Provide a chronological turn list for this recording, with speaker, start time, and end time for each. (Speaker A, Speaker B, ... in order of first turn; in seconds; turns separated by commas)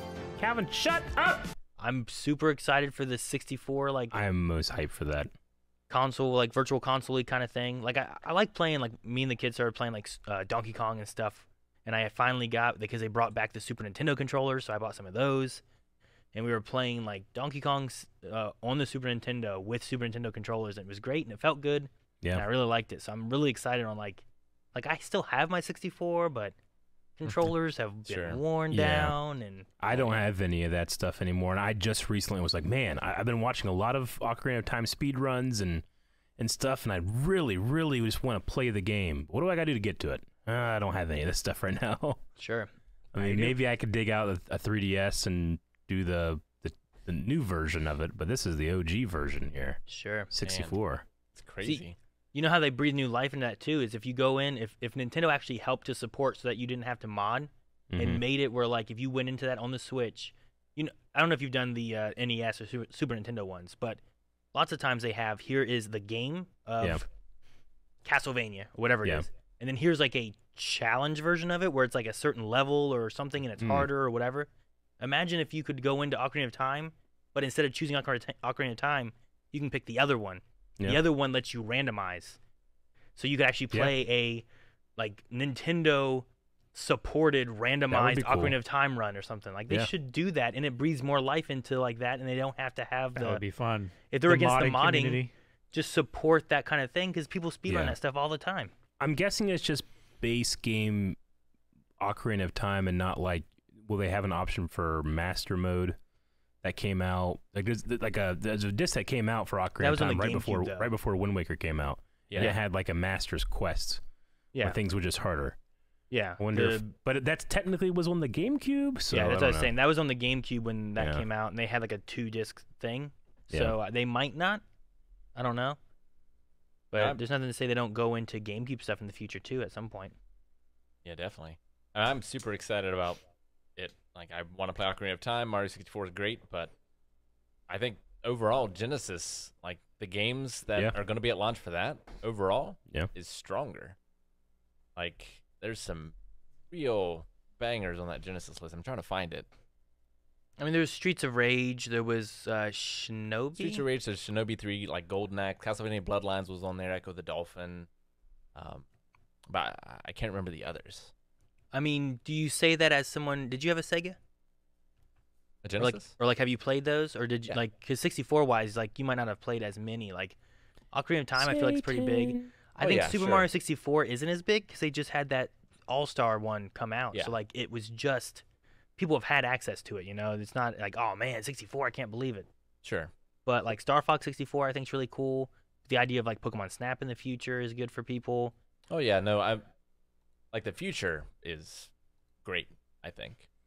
Speaker A: 0.4-1.5, Speaker B: 1.8-4.2, Speaker A: 4.1-5.3, Speaker B: 5.9-15.6, Speaker B: 16.3-26.6, Speaker B: 27.2-29.7, Speaker C: 28.1-28.4, Speaker A: 28.7-29.2, Speaker A: 29.8-35.9, Speaker C: 29.9-30.2, Speaker A: 36.4-42.2, Speaker B: 42.4-43.6, Speaker A: 43.1-51.0, Speaker B: 49.9-50.3, Speaker C: 50.4-50.8, Speaker C: 51.3-52.0, Speaker B: 51.6-64.0, Speaker A: 57.9-58.2, Speaker B: 64.5-67.1, Speaker B: 68.0-82.4, Speaker A: 73.6-73.9, Speaker B: 83.2-93.4, Speaker A: 87.9-88.6, Speaker D: 93.2-95.3, Speaker B: 94.1-98.7, Speaker A: 97.7-98.0, Speaker A: 99.0-101.2, Speaker A: 102.0-106.0, Speaker A: 106.6-114.0, Speaker B: 109.8-110.9, Speaker C: 112.3-112.5, Speaker A: 114.6-115.6, Speaker B: 116.1-116.9, Speaker A: 116.4-119.7, Speaker B: 119.1-124.6, Speaker A: 121.0-121.3, Speaker A: 123.5-123.8, Speaker B: 125.3-125.8, Speaker B: 126.9-130.2, Speaker C: 126.9-127.2, Speaker C: 131.1-133.2, Speaker C: 133.8-136.7, Speaker C: 137.7-144.0, Speaker C: 145.0-146.2, Speaker C: 146.7-149.5, Speaker B: 150.6-153.8, Speaker C: 153.6-157.9, Speaker C: 158.6-158.9, Speaker C: 159.5-161.1, Speaker B: 161.7-164.2, Speaker C: 165.6-166.1, Speaker B: 165.8-170.4, Speaker B: 170.9-178.4, Speaker A: 171.4-172.5, Speaker C: 172.8-173.5, Speaker B: 179.0-182.5, Speaker C: 182.8-183.1, Speaker B: 183.5-188.5, Speaker C: 188.9-189.7, Speaker C: 190.5-191.9, Speaker C: 192.4-193.5